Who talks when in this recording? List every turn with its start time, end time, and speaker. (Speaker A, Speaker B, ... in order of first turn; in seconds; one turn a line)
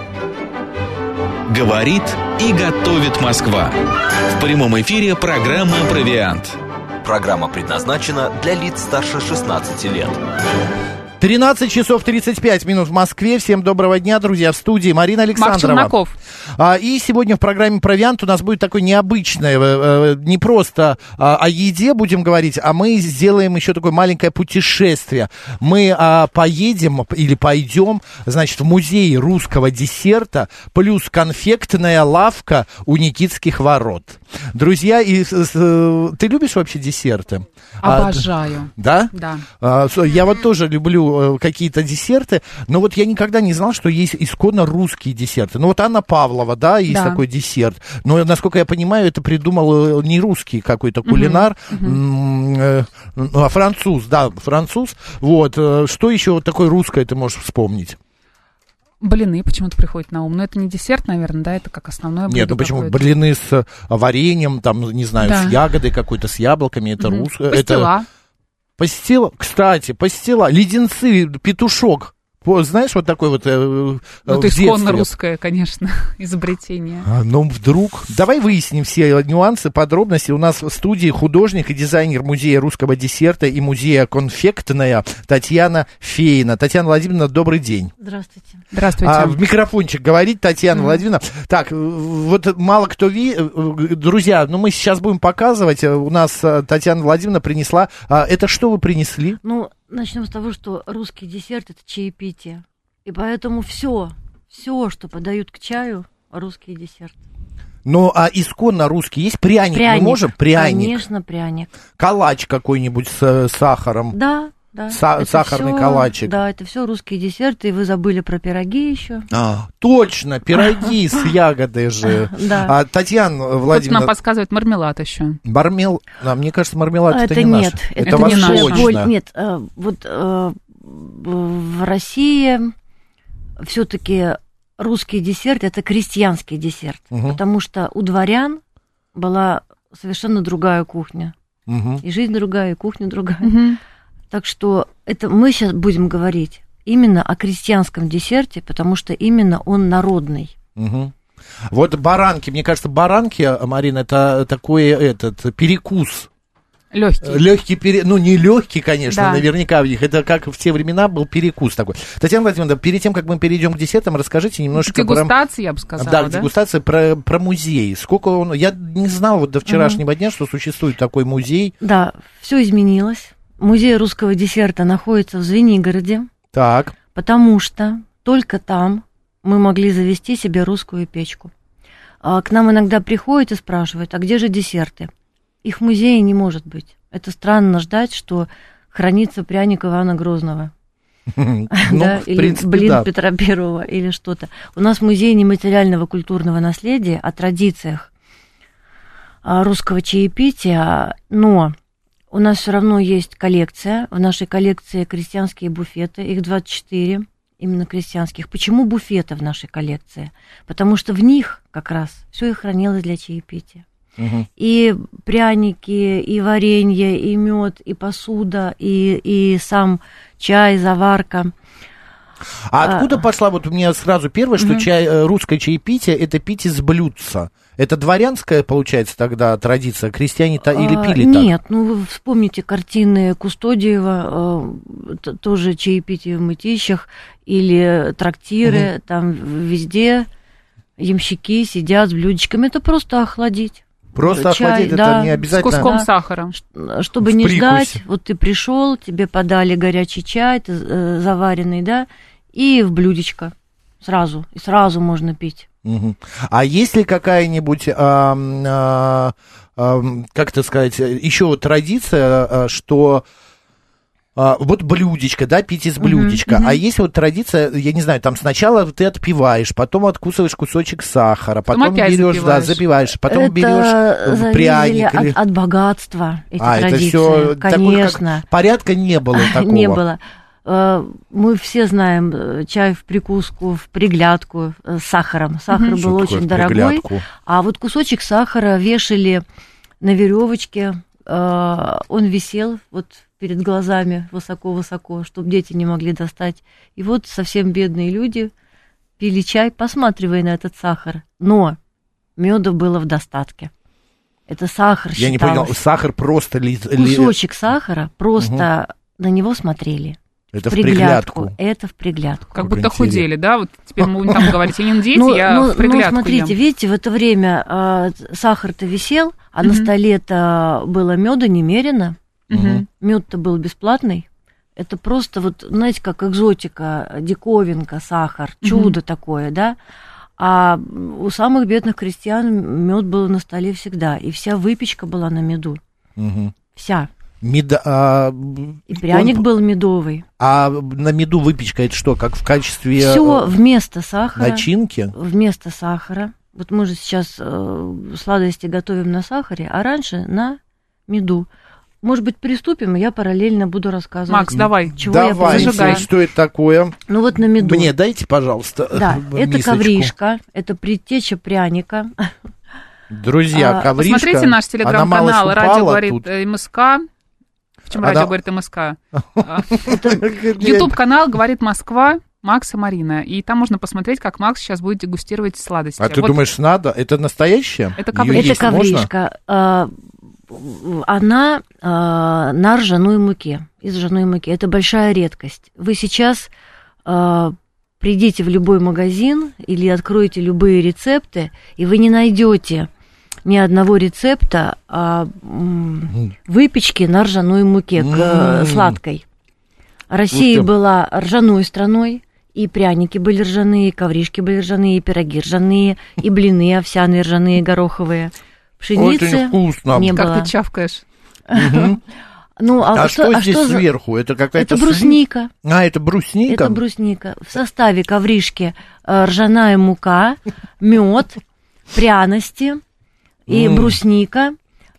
Speaker A: 1.5-3.7
Speaker A: 4.3-6.5
Speaker B: 7.0-10.2
Speaker C: 11.2-15.9
Speaker D: 15.3-16.1
Speaker C: 16.6-58.0
Speaker D: 37.8-39.4
Speaker D: 46.9-47.2
Speaker D: 51.0-52.0
Speaker D: 59.0-63.1
Speaker C: 62.3-67.9
Speaker D: 65.2-65.6
Speaker D: 67.0-68.0
Speaker C: 68.8-75.1
Speaker D: 74.3-77.1
Speaker C: 77.0-87.9
Speaker E: 88.0-88.6
Speaker D: 88.7-89.4
Speaker C: 89.0-99.4
Speaker E: 99.4-107.2
Speaker C: 107.8-111.0
Speaker E: 109.7-111.7
Speaker C: 112.0-114.2
Speaker E: 114.1-119.3
Speaker C: 114.9-116.3
Speaker C: 119.3-124.1
Speaker E: 122.1-122.7
Speaker D: 123.7-125.4
Speaker C: 125.4-129.1
Speaker E: 127.1-132.7
Speaker D: 128.1-128.9
Speaker E: 133.6-138.6
Speaker C: 137.1-137.4
Speaker E: 139.1-141.3
Speaker C: 141.7-142.0
Speaker E: 142.0-143.6
Speaker D: 143.4-143.8
Speaker E: 144.3-150.5
Speaker C: 150.8-151.1
Speaker C: 151.7-156.3
Speaker D: 156.9-157.4
Speaker C: 157.2-165.3
Speaker D: 159.1-159.4
Speaker D: 164.8-166.5
Speaker C: 166.0-171.7
Speaker E: 169.7-170.0
Speaker E: 171.8-176.3
Speaker C: 176.5-177.0
Speaker E: 177.1-181.5
Speaker E: 182.2-185.1
Speaker E: 185.6-190.7
Speaker C: 191.3-193.1
Speaker E: 191.7-198.1
Speaker E: 199.4-201.7
Speaker E: 202.3-213.8
Speaker C: 214.2-214.5
Speaker E: 214.6-221.5
Speaker C: 222.7-231.5
Speaker E: 222.8-223.2
Speaker E: 224.6-224.9
Speaker E: 230.7-240.3
Speaker E: 241.0-255.7
Speaker C: 244.1-245.9
Speaker D: 245.5-246.5
Speaker C: 247.2-248.0
Speaker C: 255.8-263.2
Speaker C: 264.4-275.4
Speaker E: 266.0-266.4
Speaker D: 266.5-266.8
Speaker D: 271.7-272.8
Speaker E: 273.3-278.4
Speaker C: 276.6-280.0
Speaker E: 279.3-289.4
Speaker C: 286.0-287.2
Speaker E: 290.0-298.5
Speaker E: 299.2-301.8
Speaker E: 302.4-303.7
Speaker E: 304.5-305.8
Speaker C: 305.1-307.4
Speaker E: 306.9-310.2
Speaker C: 308.4-308.7
Speaker C: 310.5-311.5
Speaker E: 310.7-312.7
Speaker D: 312.6-316.6
Speaker C: 312.6-313.2
Speaker C: 314.0-314.6
Speaker E: 315.1-322.1
Speaker D: 319.6-319.9
Speaker D: 322.5-322.8
Speaker C: 322.5-322.9
Speaker E: 322.9-329.8
Speaker D: 328.6-328.9
Speaker E: 330.4-335.8
Speaker C: 336.2-336.5
Speaker E: 336.7-337.1
Speaker C: 337.4-339.4
Speaker E: 338.9-340.2
Speaker C: 340.4-343.5
Speaker E: 343.0-351.5
Speaker C: 344.4-345.1
Speaker E: 352.0-356.1
Speaker D: 354.3-356.0
Speaker C: 354.5-357.0
Speaker E: 357.1-357.9
Speaker C: 357.6-360.1
Speaker E: 358.9-362.3
Speaker C: 363.1-366.2
Speaker E: 363.5-363.9
Speaker D: 363.9-367.1
Speaker D: 367.9-370.0
Speaker C: 367.9-368.3
Speaker C: 369.4-370.9
Speaker E: 369.9-370.2
Speaker D: 370.6-376.4
Speaker C: 376.0-379.1
Speaker D: 378.0-378.7
Speaker E: 378.3-379.9
Speaker E: 380.5-386.5
Speaker E: 387.0-392.9
Speaker E: 393.4-399.2
Speaker C: 398.0-399.0
Speaker E: 400.1-410.5
Speaker C: 400.3-400.7
Speaker C: 408.9-410.2
Speaker D: 410.1-411.0
Speaker E: 411.5-412.0
Speaker C: 411.5-412.0
Speaker E: 412.6-413.8
Speaker C: 412.9-416.8
Speaker E: 414.6-415.5
Speaker E: 416.5-421.4
Speaker E: 421.9-422.8
Speaker E: 423.5-424.6
Speaker C: 423.5-424.0